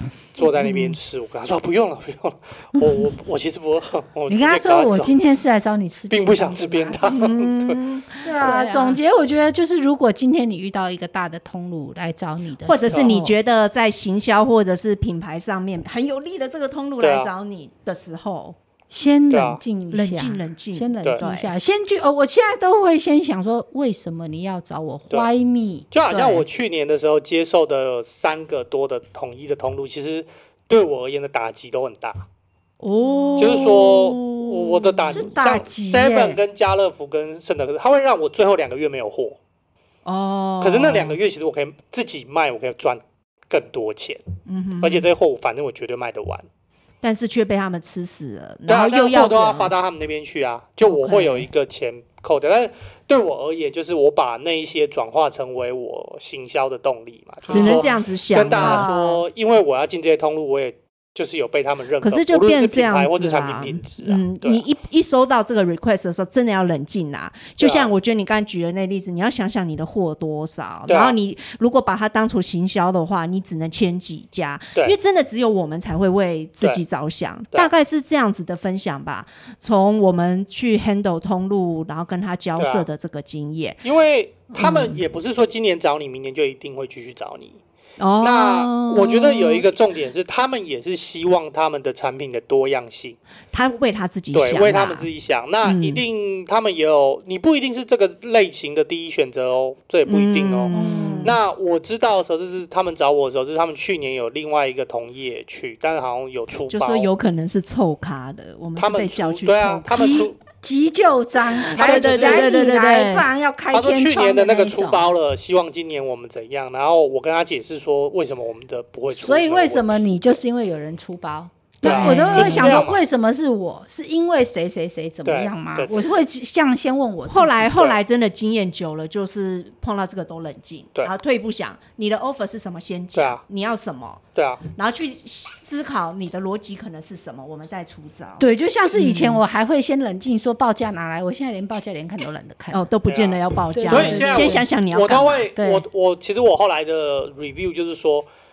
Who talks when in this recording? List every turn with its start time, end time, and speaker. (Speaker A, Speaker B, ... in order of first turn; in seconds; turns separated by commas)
Speaker A: 0.3-5.2, Speaker B: 0.6-1.0, Speaker C: 4.3-7.2, Speaker A: 6.1-7.8, Speaker B: 7.1-9.0, Speaker C: 8.2-13.3, Speaker B: 12.7-18.6, Speaker A: 12.9-13.2, Speaker A: 17.0-17.3, Speaker C: 18.9-26.5, Speaker A: 19.3-19.6, Speaker B: 19.9-21.5, Speaker A: 25.9-32.2, Speaker B: 32.8-35.3, Speaker A: 33.4-39.4, Speaker C: 35.1-36.4, Speaker B: 40.0-41.2, Speaker A: 40.6-44.2, Speaker B: 44.5-45.1, Speaker A: 44.8-46.5, Speaker B: 47.0-49.7, Speaker A: 48.7-64.6, Speaker B: 50.8-51.5, Speaker C: 57.5-57.9, Speaker B: 57.5-58.9, Speaker C: 58.6-59.2, Speaker B: 62.0-83.8, Speaker A: 67.6-67.9, Speaker A: 70.9-71.2, Speaker A: 82.6-82.9, Speaker A: 83.8-87.6, Speaker B: 84.5-85.0, Speaker B: 88.0-89.7, Speaker A: 88.2-93.2, Speaker B: 93.5-95.1, Speaker A: 94.3-107.1, Speaker B: 95.6-96.0, Speaker B: 100.1-101.4, Speaker C: 100.7-101.4, Speaker B: 106.7-110.2, Speaker A: 108.8-110.4, Speaker C: 109.9-115.1, Speaker B: 111.6-113.3, Speaker A: 111.7-112.5, Speaker A: 113.7-120.0, Speaker C: 119.1-127.9, Speaker B: 121.8-122.8, Speaker A: 121.8-123.0, Speaker A: 125.2-126.2, Speaker B: 127.3-139.4, Speaker A: 133.2-133.4, Speaker A: 134.3-134.6, Speaker C: 138.4-142.8, Speaker B: 142.7-145.5, Speaker A: 143.1-148.3, Speaker C: 143.8-144.6, Speaker C: 145.6-145.8